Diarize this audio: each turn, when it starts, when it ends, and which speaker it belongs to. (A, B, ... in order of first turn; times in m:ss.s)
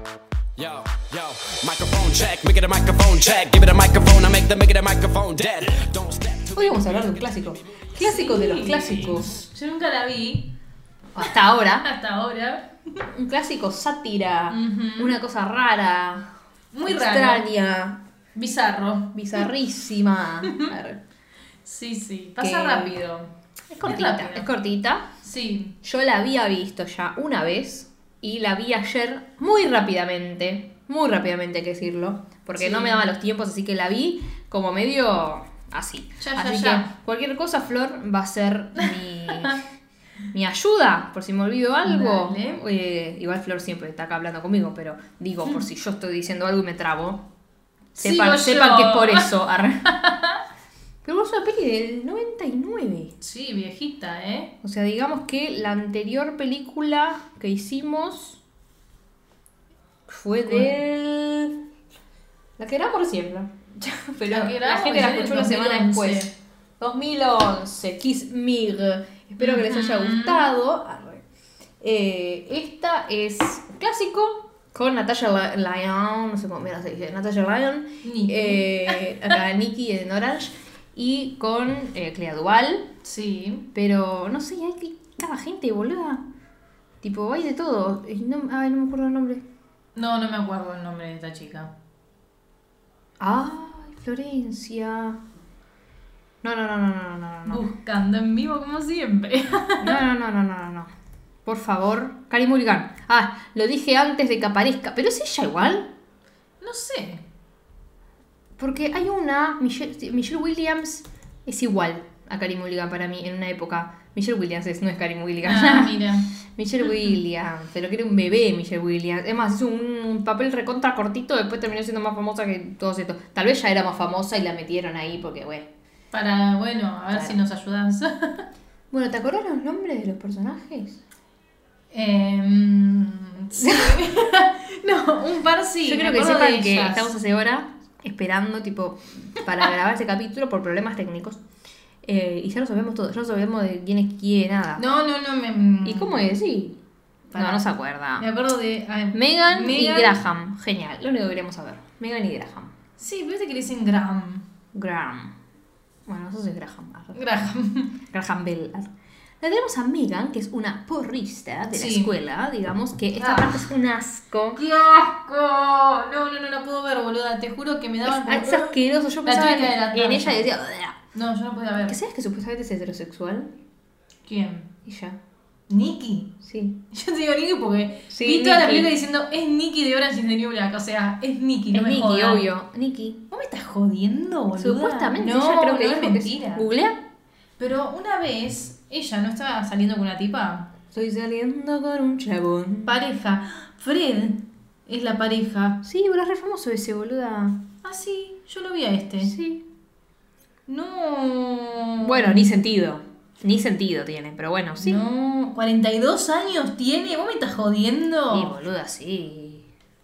0:00.6-0:07.8 A
0:06.5-0:09.4 B
0:08.0-0:10.5 C
0:11.1-0:11.9 B
0:11.8-0:13.0 C
0:13.0-0:16.3 B
0:14.5-0:15.2 C
0:16.7-0:17.5 C
0:16.8-0:18.0 B
0:18.3-0:19.4 C
0:19.1-0:21.0 B
0:20.4-0:20.7 C
0:21.6-0:23.3 C
0:22.4-0:23.0 B
0:23.7-0:25.1 B
0:23.8-0:24.5 C
0:25.2-0:25.8 C
0:25.8-0:39.6 B
0:32.6-0:33.1 C
0:36.2-0:36.9 C
0:38.8-0:39.6 C
0:40.3-0:47.2 B
0:41.8-0:42.6 C
0:48.0-0:49.3 C
0:48.0-0:49.9 B
0:49.9-0:50.4 C
0:51.0-0:53.1 B
0:53.2-0:54.5 C
0:54.6-0:58.4 B
1:00.1-1:01.6 B
1:00.4-1:00.8 C
1:02.6-1:11.2 B
1:04.2-1:06.3 C
1:09.4-1:10.5 C
1:11.8-1:22.9 B
1:18.0-1:19.0 C
1:23.0-1:23.7 C
1:23.7-1:26.2 B
1:27.0-1:29.4 B
1:29.9-1:31.7 C
1:33.2-1:35.2 B
1:36.4-1:37.6 B
1:37.5-1:40.0 C
1:39.8-1:40.9 B
1:41.4-1:45.9 B
1:46.6-1:47.2 C
1:48.6-1:56.0 B
1:55.4-1:56.3 C
1:56.5-2:05.7 B
2:06.1-2:08.4 C
2:08.9-2:11.0 B
2:11.9-2:17.1 C
2:13.6-2:13.9 B
2:15.8-2:21.4 B
2:22.0-2:24.8 B
2:24.8-2:26.2 C
2:25.8-2:26.8 B
2:27.3-2:27.6 C
2:27.3-2:28.3 B
2:28.2-2:30.2 C
2:29.1-2:32.7 B
2:33.0-2:34.5 C
2:34.7-2:35.3 B
2:36.1-2:37.2 B
2:37.1-2:37.9 C
2:38.1-2:38.9 B
2:39.4-2:44.6 B
2:41.7-2:42.2 C
2:43.2-2:43.7 C
2:44.5-2:50.5 C
2:48.0-2:51.0 B
2:51.1-2:52.0 C
2:51.8-2:53.5 B
2:54.2-2:54.7 C
2:54.8-2:55.2 B
2:55.7-2:56.4 C
2:56.4-2:56.8 B
2:56.9-3:02.5 C
2:58.1-2:58.9 B
3:01.7-3:03.2 B
3:03.3-3:06.7 C
3:04.6-3:07.0 B
3:07.6-3:10.7 C
3:10.9-3:12.9 B
3:12.8-3:15.8 C
3:15.8-3:17.6 B
3:17.8-3:19.4 C
3:19.2-3:19.6 B
3:20.7-3:22.5 C
3:22.0-3:25.0 B
3:24.8-3:28.5 C
3:28.3-3:29.7 B